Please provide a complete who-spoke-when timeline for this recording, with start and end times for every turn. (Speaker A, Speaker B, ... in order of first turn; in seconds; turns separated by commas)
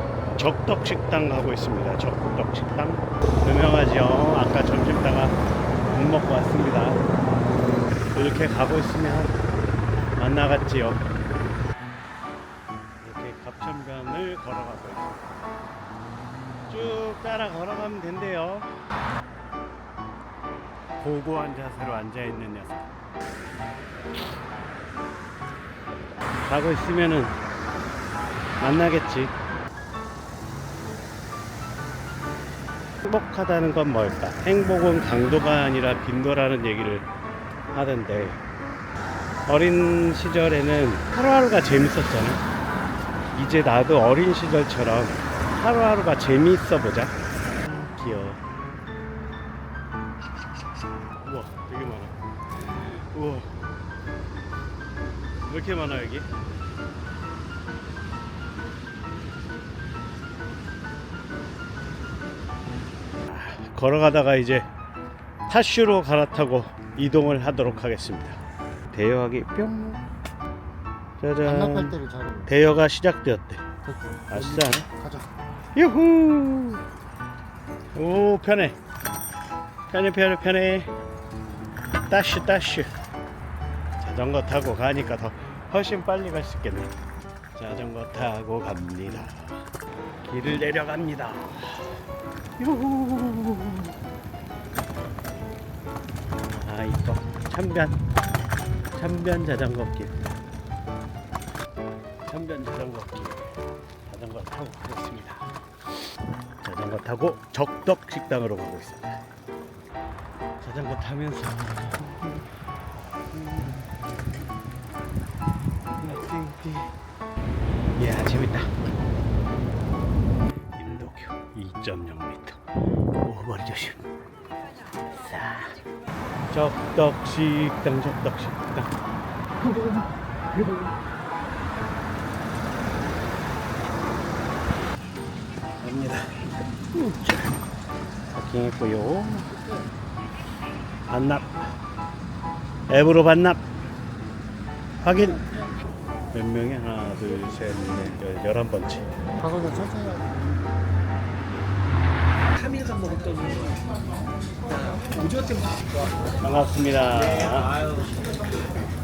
Speaker A: 0.3-5.4, Speaker A: 5.9-7.0, Speaker A: 8.1-9.3, Speaker A: 10.2-11.0, Speaker A: 13.0-15.4, Speaker A: 16.7-18.7, Speaker A: 21.0-22.9, Speaker A: 26.4-27.4, Speaker A: 28.6-29.3, Speaker A: 33.0-37.1, Speaker A: 37.7-38.4, Speaker A: 39.5-42.4, Speaker A: 43.3-47.1, Speaker A: 47.6-48.4, Speaker A: 51.2-52.1, Speaker A: 52.7-53.5, Speaker A: 55.4-56.3, Speaker A: 63.3-64.7, Speaker A: 65.5-68.4, Speaker A: 68.9-70.0, Speaker A: 71.2-73.6, Speaker B: 71.4-72.5, Speaker B: 73.9-75.3, Speaker A: 74.3-74.9, Speaker A: 75.8-76.8, Speaker A: 77.9-78.8, Speaker A: 79.9-80.9, Speaker A: 82.1-82.9, Speaker A: 84.0-86.9, Speaker A: 87.5-89.6, Speaker A: 90.2-91.9, Speaker A: 92.6-93.9, Speaker A: 96.5-97.9, Speaker A: 98.9-100.2, Speaker A: 102.2-103.5, Speaker A: 104.1-105.6, Speaker A: 106.6-109.2, Speaker A: 110.6-112.5, Speaker A: 113.3-114.4, Speaker A: 116.0-116.9, Speaker A: 118.0-118.7, Speaker A: 120.8-122.6, Speaker A: 123.2-124.1, Speaker A: 125.1-125.8, Speaker A: 126.5-128.9, Speaker A: 135.8-137.6, Speaker A: 138.3-139.5, Speaker A: 141.1-141.7, Speaker A: 142.9-143.6, Speaker A: 145.0-145.4, Speaker A: 146.3-149.0, Speaker B: 149.4-150.6, Speaker C: 152.5-153.8, Speaker C: 154.7-156.1, Speaker A: 156.4-157.7, Speaker C: 157.1-158.4